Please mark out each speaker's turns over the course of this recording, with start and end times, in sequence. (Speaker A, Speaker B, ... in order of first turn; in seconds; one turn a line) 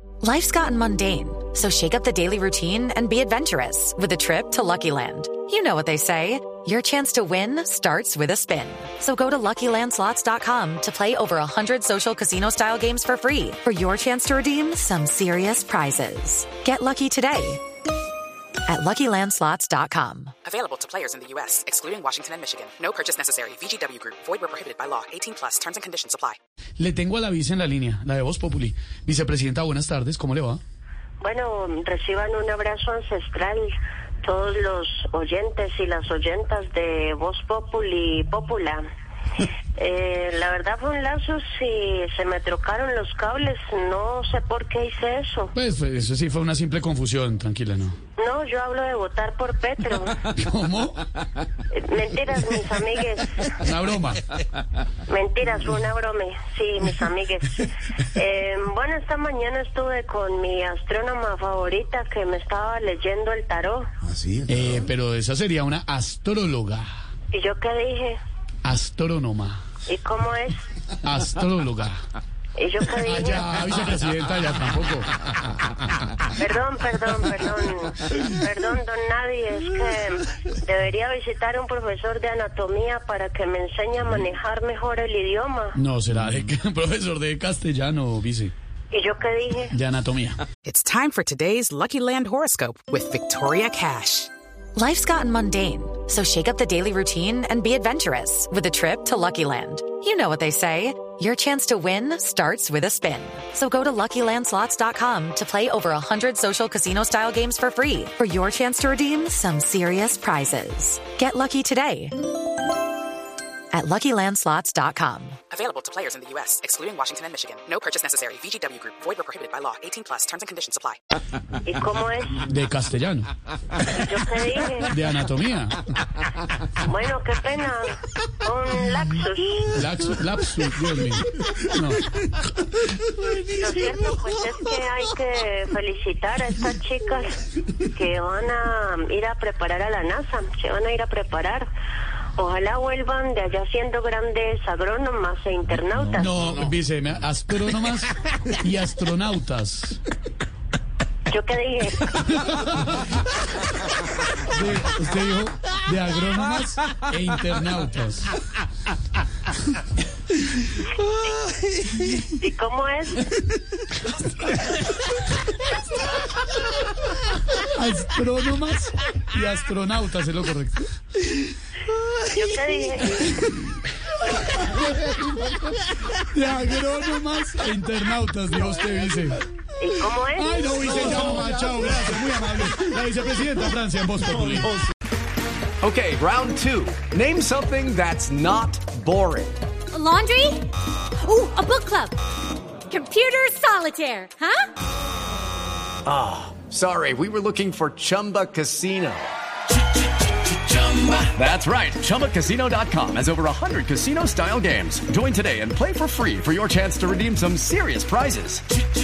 Speaker A: 0.2-17.6
Speaker A: 18.6-20.3
Speaker B: 20.4-26.4
Speaker C: 26.8-30.6
Speaker D: 31.2-33.7
Speaker D: 34.2-38.8
Speaker D: 39.8-45.5
Speaker C: 45.5-48.0
Speaker D: 48.2-50.2
Speaker C: 50.2-51.0
Speaker D: 51.7-53.4
Speaker C: 53.6-54.2
Speaker D: 55.1-63.9
Speaker C: 64.5-66.9
Speaker D: 67.3-68.2
Speaker C: 68.6-69.6
Speaker D: 69.8-70.6
Speaker C: 71.0-71.9
Speaker D: 72.6-73.6
Speaker C: 73.1-75.1
Speaker D: 76.3-85.8
Speaker C: 85.8-88.5
Speaker D: 88.9-89.7
Speaker C: 89.7-90.4
Speaker B: 90.6-94.3
Speaker A: 94.8-112.1
Speaker A: 113.7-115.4
Speaker B: 115.5-121.0
Speaker D: 121.6-122.5
Speaker C: 122.5-123.3
Speaker D: 123.8-124.9
Speaker C: 124.9-126.0
Speaker D: 126.8-129.8
Speaker C: 129.8-132.0
Speaker D: 133.5-141.7
Speaker D: 142.4-146.5
Speaker C: 146.2-148.1
Speaker C: 148.6-150.0
Speaker D: 151.3-152.2
Speaker C: 152.3-153.1
Speaker C: 154.4-158.2
Speaker C: 161.8-162.2
Speaker D: 162.2-163.3
Speaker C: 167.6-171.3
Speaker D: 172.2-173.4
Speaker C: 173.4-173.8
Speaker C: 174.5-175.2
Speaker C: 176.2-179.4
Speaker D: 179.8-180.7
Speaker C: 180.4-184.7
Speaker E: 185.8-189.6
Speaker F: 189.9-192.2
Speaker F: 192.9-194.7
Speaker E: 196.1-199.3
Speaker E: 200.5-208.6